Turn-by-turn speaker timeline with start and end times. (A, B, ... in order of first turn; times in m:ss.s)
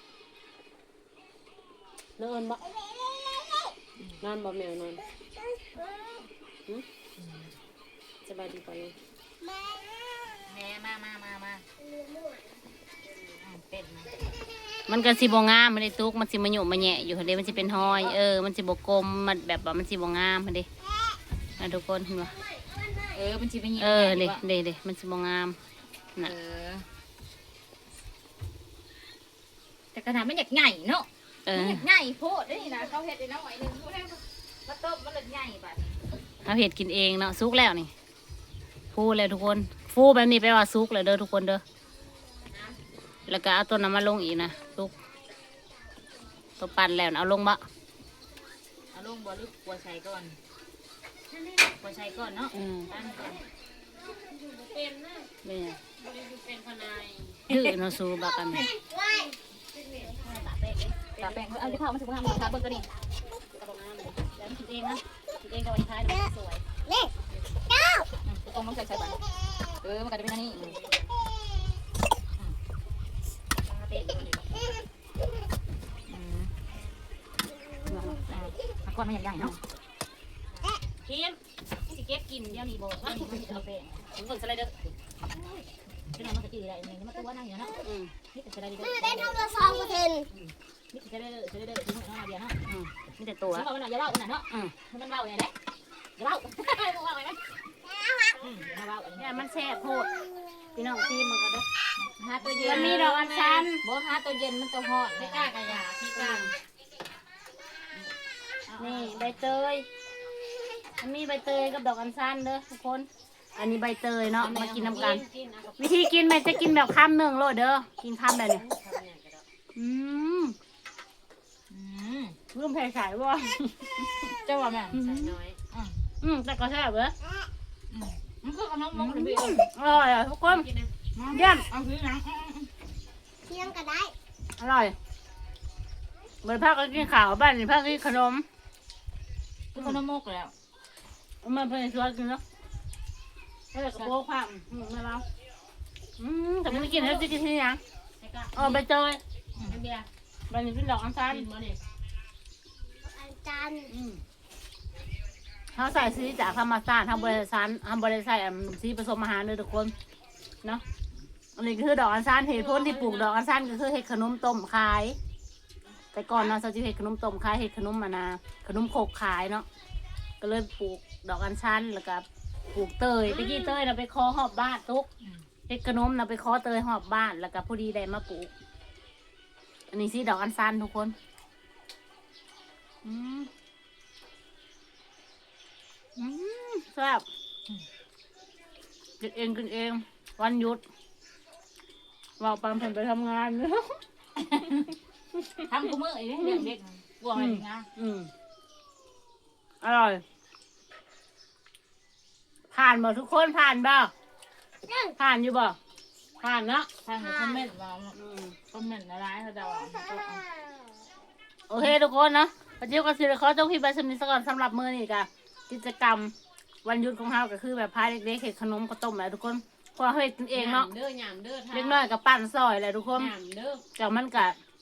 0:02.2-0:02.7 A
0:02.7-0:03.7 B
0:04.2-0:05.0 A
0:05.7-0:06.2 B
0:07.2-0:07.5 C
0:08.2-0:08.9 A
0:09.4-0:10.2 B
0:10.3-0:11.6 C
0:11.8-0:12.6 B
0:13.4-0:14.3 C
0:14.9-0:20.7 D
0:17.2-0:18.2 C
0:21.6-0:22.3 D
0:22.5-0:23.0 B
0:23.1-0:24.4 C
0:23.8-0:25.6 D
0:26.2-0:26.9 C
0:29.9-0:36.0 C
0:31.4-0:31.9 D
0:36.4-0:37.9 D
0:38.9-0:41.6 D
0:43.2-0:45.0 D
0:46.6-0:47.6 D
0:48.9-0:50.4 C
0:51.3-0:51.7 A
0:51.8-0:53.4 C
0:52.5-0:52.9 D
0:54.2-0:55.3 A
0:55.4-0:55.8 D
0:56.0-0:57.5 A
0:57.5-0:58.6 C
0:57.5-0:58.7 D
0:58.7-0:59.3 B
0:59.7-1:00.2 A
1:00.0-1:01.8 D
1:01.1-1:02.9 C
1:03.5-1:06.6 D
1:07.7-1:08.0 B
1:08.2-1:09.2 C
1:09.8-1:10.6 C
1:10.5-1:10.8 D
1:10.6-1:11.1 A
1:16.1-1:16.5 C
1:17.8-1:18.3 D
1:18.2-1:19.6 C
1:21.1-1:21.4 A
1:21.9-1:24.1 C
1:23.0-1:23.4 D
1:24.1-1:24.8 D
1:25.3-1:27.8 C
1:27.8-1:28.2 D
1:28.3-1:29.8 C
1:28.9-1:30.3 B
1:30.9-1:32.6 C
1:32.6-1:33.7 D
1:33.4-1:35.5 C
1:34.5-1:34.7 D
1:36.2-1:37.6 C
1:37.9-1:38.4 B
1:38.3-1:39.5 C
1:39.2-1:41.6 D
1:42.0-1:45.8 C
1:42.5-1:43.6 A
1:42.6-1:43.8 D
1:45.1-1:46.5 A
1:46.1-1:46.5 D
1:48.7-1:49.5 C
1:48.8-1:49.9 D
1:51.0-1:55.2 D
1:54.4-1:55.2 C
1:54.4-1:55.9 A
1:55.8-1:58.6 D
1:58.5-1:59.4 A
1:59.7-2:00.6 D
2:01.7-2:02.4 C
2:02.5-2:04.3 D
2:04.4-2:05.0 C
2:04.9-2:05.4 D
2:04.9-2:05.6 A
2:06.2-2:07.1 D
2:07.9-2:09.6 C
2:08.9-2:10.7 D
2:10.4-2:10.9 A
2:11.1-2:12.7 C
2:11.3-2:11.7 D
2:13.5-2:14.1 B
2:14.6-2:15.0 D
2:16.4-2:18.4 D
2:19.7-2:20.5 C
2:19.8-2:20.0 D
2:21.4-2:22.4 D
2:23.7-2:25.2 D
2:26.2-2:27.8 D
2:26.7-2:27.3 A
2:28.2-2:28.7 A
2:28.5-2:29.2 D
2:29.6-2:30.1 A
2:30.5-2:31.5 D
2:31.3-2:31.8 A
2:33.0-2:33.9 B
2:33.9-2:34.2 D
2:35.7-2:39.9 D
2:41.6-2:45.2 D
2:42.5-2:43.3 A
2:46.1-2:49.7 D
2:50.4-2:55.1 D
2:53.3-2:53.7 A
2:55.2-2:55.5 C
2:55.7-2:58.5 D
2:59.9-3:01.1 D
3:03.0-3:03.5 D
3:06.2-3:07.2 D
3:09.2-3:10.8 D
3:12.4-3:14.0 D
3:14.4-3:15.0 C
3:15.4-3:15.7 D
3:15.6-3:17.9 C
3:16.4-3:16.7 D
3:17.3-3:18.3 D
3:19.8-3:20.2 D
3:22.7-3:24.1 D
3:24.9-3:25.2 B
3:25.2-3:25.8 D
3:26.4-3:26.9 D
3:27.0-3:30.4 C
3:27.2-3:27.6 B
3:28.1-3:28.6 D
3:31.7-3:40.9 D
3:40.5-3:42.0 A
3:41.7-3:43.3 D
3:43.1-3:43.8 A
3:43.9-3:44.6 D